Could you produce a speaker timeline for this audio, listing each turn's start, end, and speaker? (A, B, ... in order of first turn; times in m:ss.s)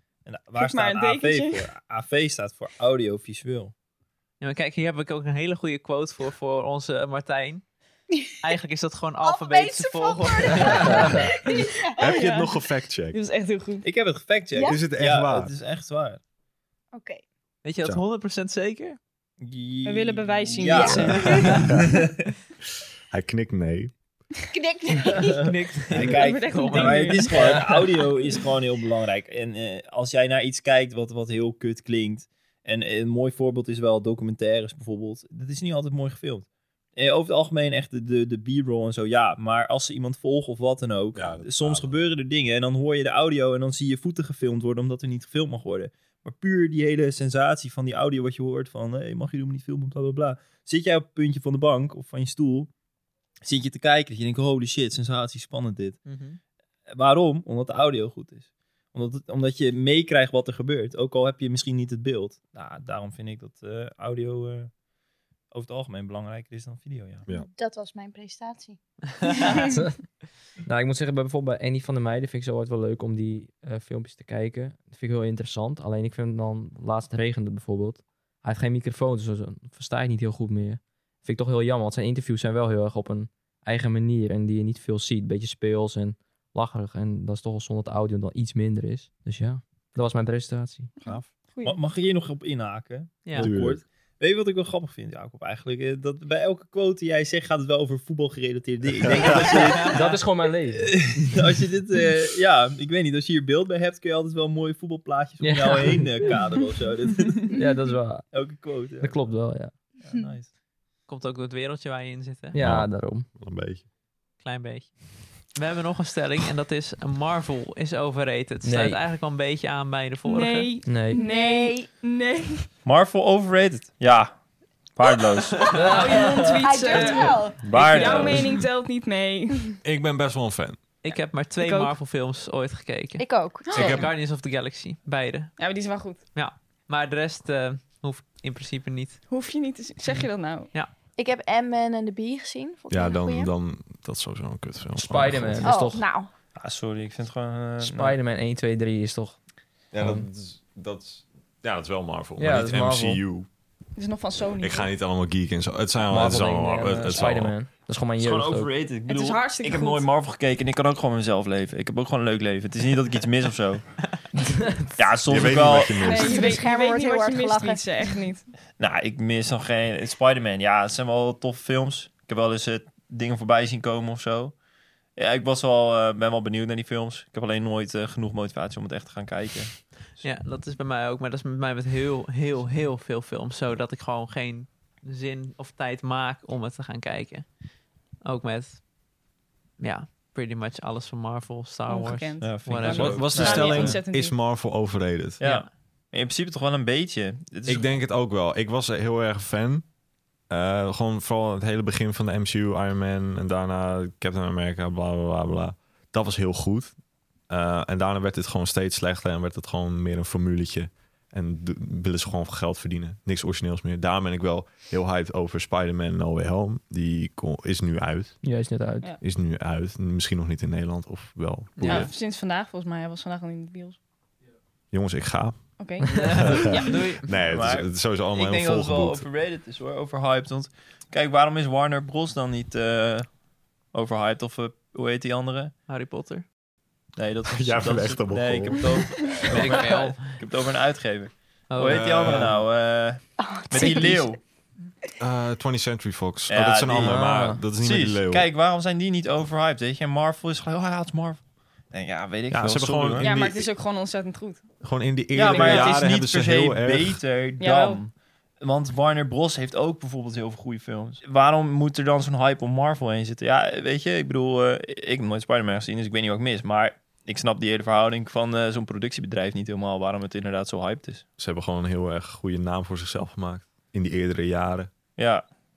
0:00.2-0:03.7 A
0:00.6-0:01.6 B
0:04.4-0:07.6 C
0:08.1-0:08.3 D
0:08.4-0:11.2 C
0:09.2-0:11.9 D
0:11.0-0:13.2 E
0:12.0-0:13.9 B
0:13.8-0:16.2 A
0:14.5-0:14.8 D
0:14.6-0:15.5 E
0:16.9-0:17.2 D
0:17.6-0:19.0 C
0:19.4-0:22.2 A
0:19.8-0:21.6 B
0:20.7-0:21.6 D
0:21.0-0:21.7 C
0:21.2-0:21.8 E
0:23.1-0:23.9 E
0:24.5-0:25.4 D
0:25.3-0:52.7 A
0:25.4-0:27.6 C
0:26.0-0:28.0 B
0:41.1-0:41.9 E
0:53.4-0:56.0 A
0:56.0-0:56.4 C
0:56.9-1:04.7 A
1:05.5-1:07.2 A
1:07.3-1:09.7 D
1:09.2-1:09.5 C
1:09.6-1:10.0 F
1:10.6-1:30.9 F
1:31.0-1:31.8 B
1:31.6-1:47.6 A
1:33.2-1:33.5 C
1:33.4-1:33.8 E
1:39.0-1:39.5 E
1:39.5-1:39.9 C
1:39.8-1:41.4 F
1:45.4-1:46.4 F
1:47.5-1:49.8 F
1:48.3-1:50.5 A
1:51.1-1:52.6 C
1:52.5-1:53.3 F
1:52.6-1:53.8 E
1:54.4-2:00.7 C
1:58.6-1:59.0 F
2:00.2-2:02.6 B
2:00.8-2:01.2 F
2:01.1-2:02.0 D
2:02.8-2:05.8 A
2:05.6-2:08.4 D
2:05.7-2:07.2 F
2:05.7-2:09.8 B
2:07.5-2:08.6 A
2:09.8-2:10.8 E
2:11.0-2:19.4 C
2:11.1-2:11.9 B
2:13.2-2:14.0 D
2:13.6-2:14.0 B
2:13.8-2:14.0 E
2:15.6-2:16.2 B
2:19.3-2:20.7 B
2:20.1-2:20.9 C
2:21.2-2:23.5 D
2:22.9-2:25.7 E
2:25.0-2:26.1 F
2:25.6-2:26.3 D
2:26.6-2:28.2 A
2:27.8-2:29.4 F
2:29.9-2:33.5 E
2:29.9-2:30.2 F
2:32.4-2:33.2 F
2:34.0-2:34.9 B
2:34.6-2:37.6 E
2:36.1-2:38.7 F
2:38.2-2:44.1 A
2:39.0-2:40.1 B
2:45.0-2:46.0 A
2:45.2-2:46.4 E
2:45.9-2:48.5 B
2:46.0-2:48.2 D
2:48.7-2:54.6 A
2:55.1-3:00.3 A
3:00.2-3:07.6 C
3:08.2-3:08.9 C
3:09.8-3:13.5 C
3:11.9-3:14.4 B
3:12.4-3:14.0 A
3:12.9-3:15.4 E
3:15.4-3:17.9 A
3:15.4-3:15.7 C
3:17.6-3:19.9 E
3:20.5-3:27.0 E
3:27.5-3:38.7 E
3:38.4-3:39.1 F
3:39.2-3:42.1 E
3:41.8-3:42.1 C
3:41.8-3:44.0 B
3:44.9-3:49.2 E
3:45.8-3:47.2 B
3:46.2-3:47.5 C
3:47.4-3:53.4 A
3:53.9-3:55.7 A
3:55.9-3:56.4 C
3:57.2-4:04.4 A
3:57.5-3:59.1 E
3:59.5-4:00.4 C
4:01.7-4:02.5 C
4:01.9-4:02.6 E
4:03.4-4:04.3 D
4:05.2-4:08.5 E
4:06.5-4:07.2 A
4:07.0-4:07.6 F
4:07.7-4:13.3 A
4:12.5-4:13.7 E
4:13.2-4:14.7 B
4:14.8-4:17.2 E
4:15.3-4:31.2 A
4:15.4-4:16.1 B
4:17.6-4:18.0 B
4:31.4-4:34.9 E
4:35.2-4:35.4 A